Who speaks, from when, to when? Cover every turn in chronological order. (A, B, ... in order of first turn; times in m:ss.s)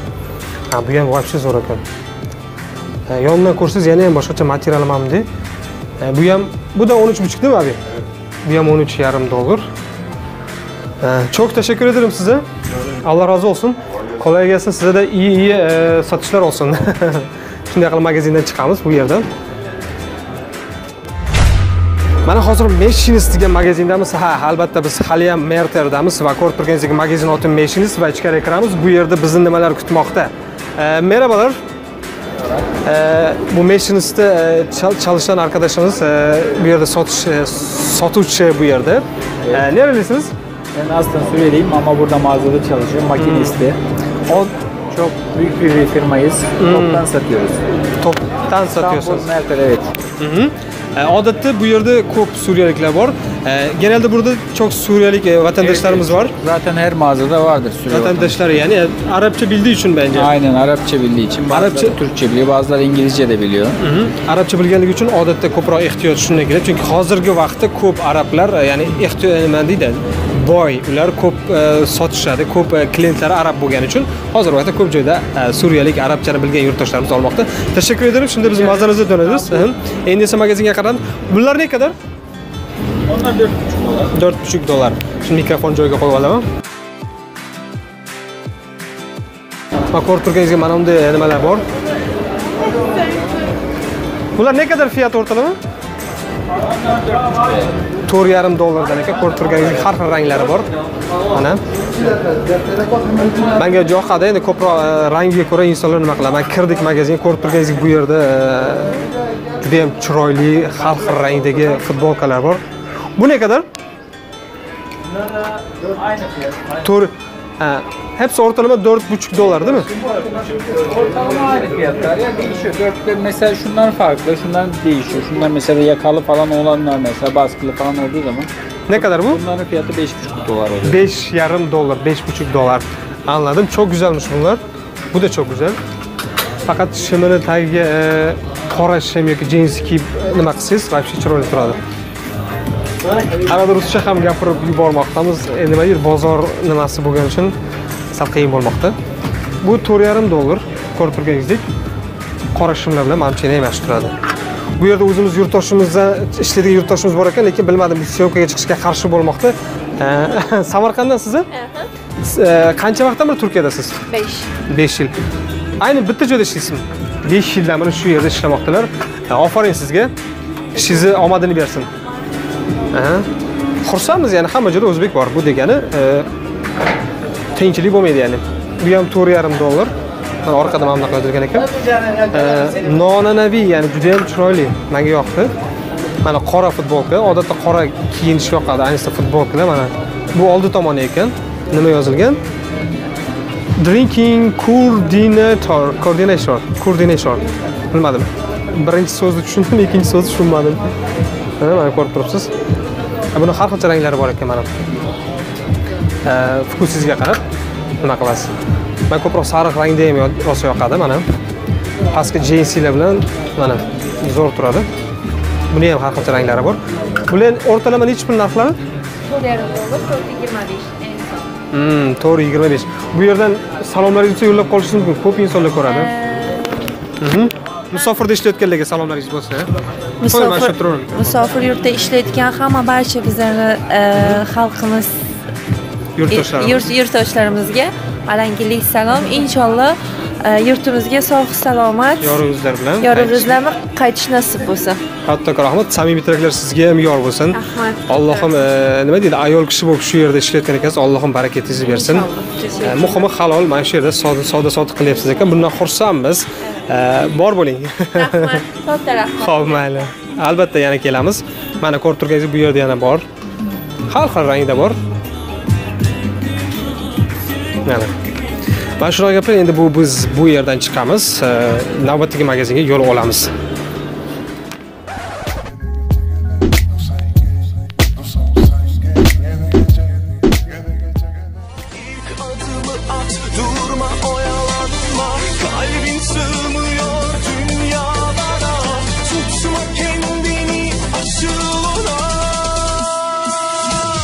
0:00.7-0:01.8 A
0:03.1-0:05.3 A
0:06.0-0:07.8 A
0:08.4-0:09.7 A
0:11.0-0:19.3 A
0:22.3-0:31.6 A
0:32.8-0:40.3 A
0:40.7-0:47.6 B
0:43.2-0:43.7 A
0:46.6-0:47.1 A
0:48.0-0:49.3 A
0:48.7-0:49.9 B
0:50.2-0:56.3 A
0:55.6-0:58.5 B
0:57.9-1:00.4 A
1:00.1-1:03.8 B
1:01.5-1:02.0 A
1:03.8-1:22.0 A
1:24.0-1:26.4 A
1:29.9-1:31.6 A
1:34.4-1:35.6 A
1:38.1-1:40.7 A
1:41.3-1:41.6 A
1:43.4-1:49.1 A
1:49.6-1:52.6 A
1:53.2-1:53.7 A
1:55.8-1:56.5 B
1:56.8-1:59.9 A
2:00.3-2:11.0 B
2:08.9-2:09.4 A
2:10.8-2:14.6 A
2:15.1-2:15.8 A
2:16.7-2:21.8 A
2:23.4-2:27.6 A
2:28.1-2:29.0 A
2:29.6-2:31.6 A
2:32.5-2:34.1 A
2:34.8-2:41.5 A
2:42.2-2:44.0 A
2:44.1-2:44.4 B
2:44.7-2:45.1 A
2:45.8-2:50.1 A
2:50.7-2:51.9 A
2:52.9-2:53.3 A
2:53.8-2:56.3 A
2:57.6-2:59.9 A
3:00.4-3:05.5 A
3:06.2-3:12.4 A
3:13.8-3:20.8 A
3:21.6-3:22.5 A
3:23.3-3:24.7 A
3:26.2-3:27.4 A
3:28.0-3:28.5 A
3:29.1-3:31.2 A
3:32.1-3:34.9 A
3:35.7-3:38.8 A
3:39.3-3:41.4 B
3:40.1-3:41.0 C
3:41.7-3:46.1 A
3:46.1-3:46.9 C
3:47.2-3:49.7 A
3:50.2-3:55.2 C
3:50.3-3:51.2 A
3:56.2-3:56.9 A
3:56.3-4:02.4 C
4:02.2-4:03.6 A
4:03.0-4:05.0 C
4:05.2-4:18.7 A
4:07.5-4:08.5 C
4:11.8-4:13.3 C
4:18.2-4:20.0 C
4:19.4-4:23.3 A
4:24.1-4:25.0 A
4:27.8-4:28.1 A
4:29.0-4:33.5 A
4:42.2-4:52.3 B